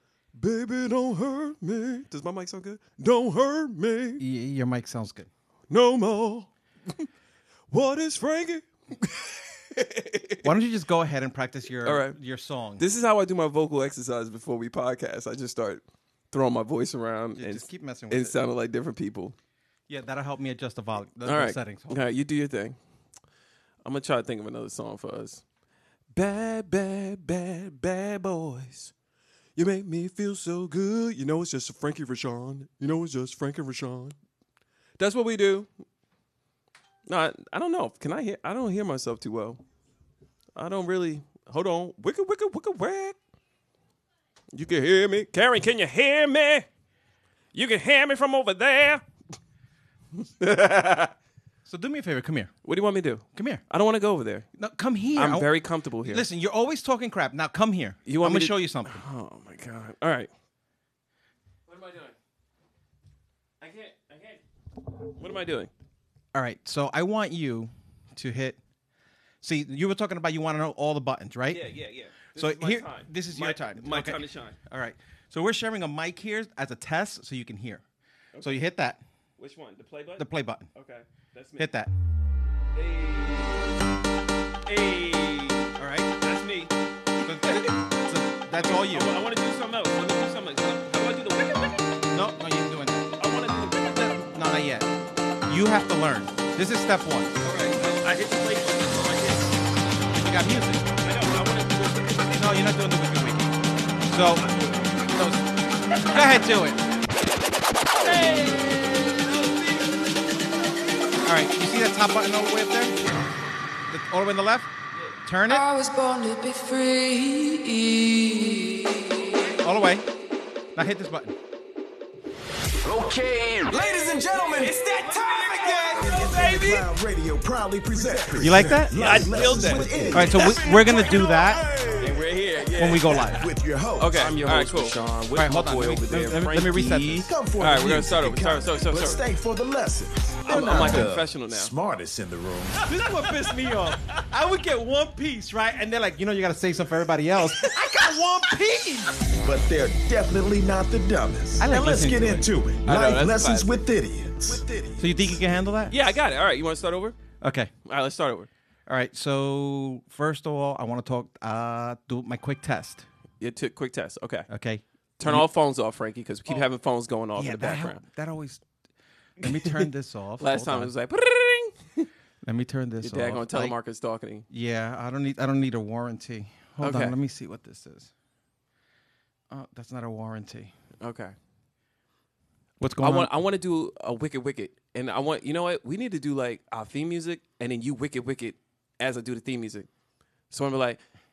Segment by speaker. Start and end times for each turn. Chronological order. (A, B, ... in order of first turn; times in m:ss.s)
0:00.4-0:04.2 A
0:04.2-0:05.3 B
0:05.7-0:07.1 A
0:07.7-0:10.5 A
0:10.4-0:12.8 B
0:11.8-0:12.2 A
0:12.8-0:19.4 A
0:17.4-0:18.4 B
0:19.9-0:22.0 B
0:21.3-0:22.8 A
0:23.8-0:25.4 A
0:26.2-0:28.9 A
0:29.6-0:34.1 A
0:35.0-0:35.7 A
0:37.1-0:39.6 A
0:40.6-0:43.2 A
0:44.5-0:46.7 A
0:47.5-0:49.0 A
0:50.2-0:51.1 A
0:51.7-0:52.5 B
0:52.6-0:54.5 A
0:53.4-0:53.6 B
0:54.6-0:55.5 B
0:55.2-0:56.3 A
0:56.0-0:59.0 B
0:58.1-1:00.3 A
1:01.7-1:02.2 A
1:03.6-1:05.7 A
1:06.3-1:08.6 B
1:09.4-1:11.7 B
1:11.5-1:14.6 A
1:12.4-1:17.8 B
1:18.3-1:18.6 A
1:18.4-1:19.0 B
1:19.4-1:21.7 A
1:20.2-1:20.7 B
1:21.6-1:21.9 B
1:22.7-1:23.8 A
1:24.7-1:27.7 A
1:25.8-1:26.1 B
1:27.2-1:29.1 B
1:28.6-1:32.1 A
1:32.1-1:33.1 B
1:33.2-1:34.2 A
1:33.9-1:34.9 B
1:35.5-1:37.4 B
1:37.4-1:39.6 A
1:40.1-1:41.0 B
1:41.0-1:42.7 A
1:42.3-1:44.5 B
1:44.4-1:45.2 A
1:45.0-1:46.8 B
1:48.0-1:51.2 A
1:51.2-1:53.0 B
1:53.9-1:54.7 B
1:55.2-1:55.7 B
1:55.5-1:59.5 C
1:59.6-2:00.1 B
2:00.8-2:01.4 B
2:02.8-2:12.3 D
2:04.5-2:06.9 A
2:08.0-2:10.8 A
2:08.4-2:09.0 B
2:09.8-2:11.6 B
2:12.0-2:13.4 A
2:12.8-2:13.5 B
2:13.1-2:15.0 D
2:14.0-2:19.2 A
2:15.3-2:17.3 B
2:17.3-2:22.8 D
2:20.4-2:21.7 A
2:22.8-2:29.1 B
2:27.4-2:28.1 A
2:29.4-2:35.4 D
2:31.6-2:32.5 B
2:32.8-2:33.8 A
2:35.0-2:36.0 B
2:35.9-2:37.2 A
2:37.4-2:37.7 B
2:37.9-2:38.5 A
2:38.9-2:43.0 B
2:43.4-2:44.5 A
2:44.5-2:45.5 B
2:45.2-2:48.0 A
2:47.4-2:48.6 B
2:49.4-2:50.9 B
2:49.4-2:49.9 A
2:50.4-2:52.1 A
2:52.4-2:53.8 B
2:53.0-2:54.5 A
2:54.5-2:58.1 B
2:56.8-2:57.2 A
2:59.5-3:00.7 B
3:01.0-3:01.4 A
3:02.8-3:03.3 B
3:03.0-3:09.9 A
3:10.5-3:11.0 A